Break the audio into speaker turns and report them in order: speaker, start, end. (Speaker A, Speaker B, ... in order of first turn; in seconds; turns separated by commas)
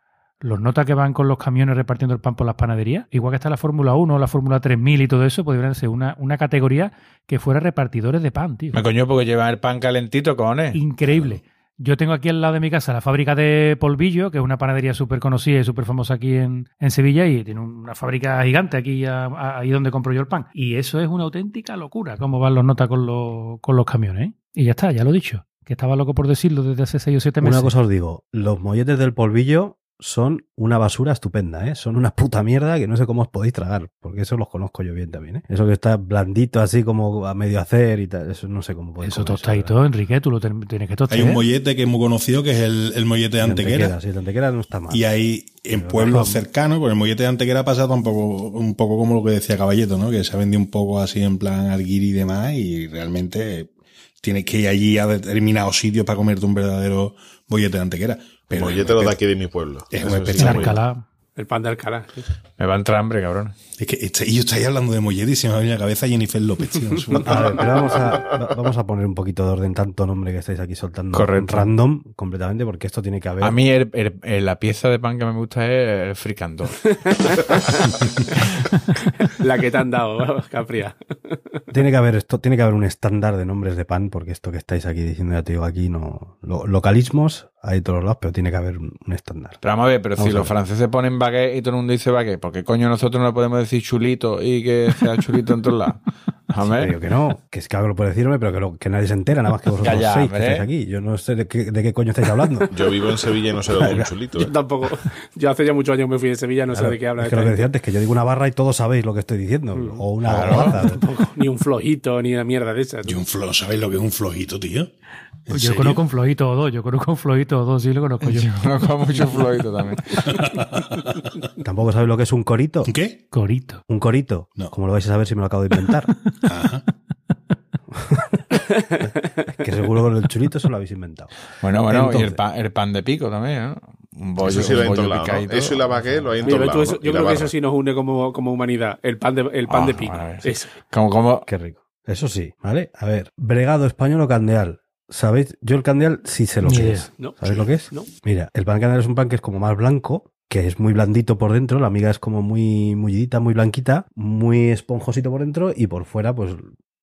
Speaker A: 0.4-8.8, Speaker B: 8.7-10.8, Speaker A: 10.7-27.7, Speaker C: 11.1-11.4, Speaker D: 27.4-39.8, Speaker A: 39.0-41.4, Speaker C: 41.1-44.0, Speaker D: 43.4-45.1, Speaker C: 44.9-53.7, Speaker D: 45.7-46.4, Speaker C: 54.2-59.2, Speaker E: 58.5-60.8, Speaker C: 59.9-60.8, Speaker A: 60.4-61.1, Speaker F: 61.4-62.3, Speaker B: 62.6-63.5, Speaker C: 63.8-68.0, Speaker D: 67.2-73.6, Speaker B: 71.1-71.7, Speaker B: 73.4-76.9, Speaker F: 77.1-77.9, Speaker F: 79.2-81.4, Speaker D: 81.7-89.6, Speaker B: 89.6-96.9, Speaker D: 90.2-90.5, Speaker D: 96.6-102.7, Speaker B: 99.8-100.7, Speaker E: 102.7-104.5, Speaker D: 103.8-104.1, Speaker F: 104.4-107.7, Speaker D: 106.7-111.0, Speaker F: 109.7-113.2, Speaker B: 110.2-110.8, Speaker C: 113.0-114.9, Speaker C: 115.5-116.0, Speaker A: 115.5-118.5, Speaker B: 118.2-120.3, Speaker C: 120.2-121.3, Speaker D: 121.6-122.9, Speaker C: 122.8-123.2, Speaker A: 123.3-123.8, Speaker D: 123.9-126.1, Speaker C: 126.4-126.8, Speaker F: 128.7-129.4, Speaker D: 129.6-131.3, Speaker B: 131.6-136.2, Speaker D: 131.9-132.4, Speaker E: 134.4-137.5, Speaker F: 136.4-140.8, Speaker B: 139.7-141.5, Speaker D: 141.5-156.7, Speaker A: 146.6-147.1, Speaker F: 147.2-148.1